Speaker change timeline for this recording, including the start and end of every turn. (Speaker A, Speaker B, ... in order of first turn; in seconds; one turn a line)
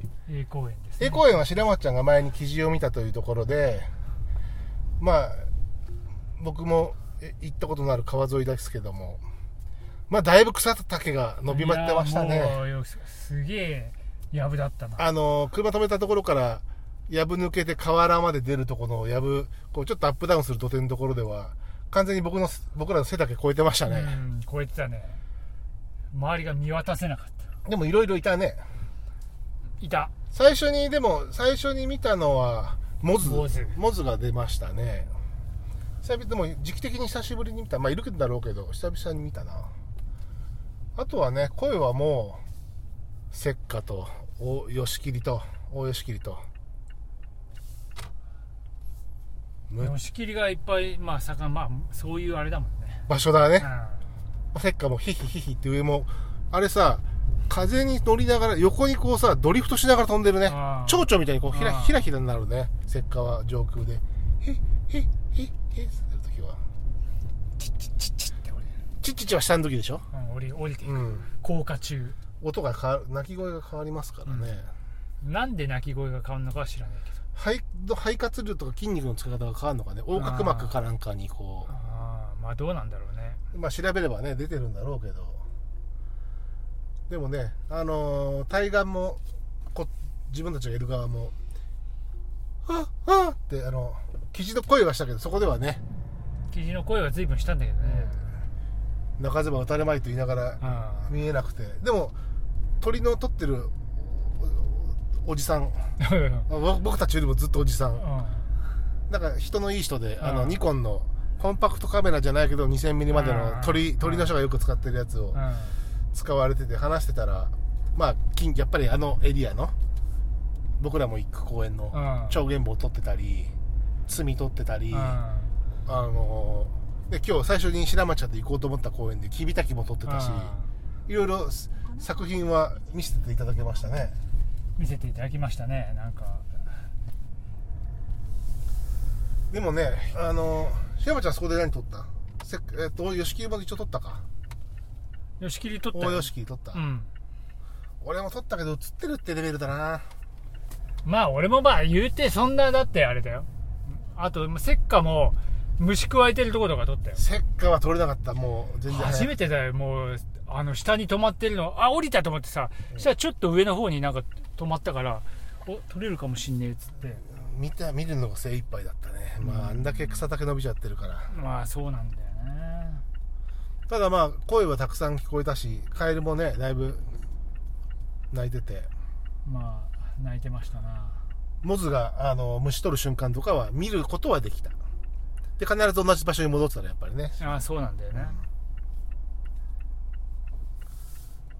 Speaker A: 0.2-1.4
Speaker B: 1.0-3.9
Speaker B: 5.0-5.5
Speaker B: 6.4-9.2
Speaker B: 10.1-12.6
Speaker A: 11.5-15.1
Speaker B: 15.0-24.2
Speaker A: 23.9-25.2
Speaker A: 26.1-27.4
Speaker B: 27.6-28.6
Speaker A: 29.8-30.1
Speaker B: 30.3-35.1
Speaker A: 33.2-33.8
Speaker B: 36.0-39.7
Speaker B: 41.0-42.4
Speaker B: 43.3-46.4
Speaker A: 49.8-53.0
Speaker B: 53.1-53.7
Speaker A: 53.6-54.0
Speaker B: 54.5-66.6
Speaker A: 60.5-62.1
Speaker A: 67.6-68.7
Speaker B: 69.0-70.1
Speaker A: 70.1-72.2
Speaker B: 70.8-71.3
Speaker B: 72.4-74.7
Speaker A: 74.2-74.6
Speaker A: 75.2-77.2
Speaker B: 77.3-81.7
Speaker A: 80.1-80.8
Speaker A: 81.7-83.4
Speaker B: 83.5-85.4
Speaker B: 87.1-89.2
Speaker B: 89.7-91.3
Speaker B: 92.6-95.8
Speaker A: 96.5-98.2
Speaker B: 97.8-98.3
Speaker B: 99.2-102.2
Speaker A: 100.6-101.2
Speaker B: 102.8-108.0
Speaker A: 106.0-106.5
Speaker A: 108.0-108.5
Speaker B: 109.1-115.4
Speaker A: 110.2-110.6
Speaker A: 113.1-114.3
Speaker A: 115.3-115.8
Speaker B: 116.1-119.7
Speaker B: 120.8-123.5
Speaker A: 121.9-122.4
Speaker B: 124.1-125.2
Speaker A: 124.9-125.5
Speaker B: 125.8-130.6
Speaker A: 130.0-130.7
Speaker B: 131.1-134.2
Speaker A: 134.8-136.6
Speaker B: 139.5-144.2
Speaker A: 145.4-147.1
Speaker B: 145.9-146.8
Speaker B: 148.0-150.1
Speaker A: 151.0-157.2
Speaker B: 157.2-159.4
Speaker A: 158.9-167.2
Speaker B: 167.2-171.3
Speaker A: 169.4-170.2
Speaker A: 171.3-173.0
Speaker B: 173.9-177.1
Speaker B: 178.3-178.9
Speaker A: 179.4-181.2
Speaker B: 181.6-184.7
Speaker B: 185.6-187.4
Speaker A: 187.4-188.4
Speaker B: 188.1-188.4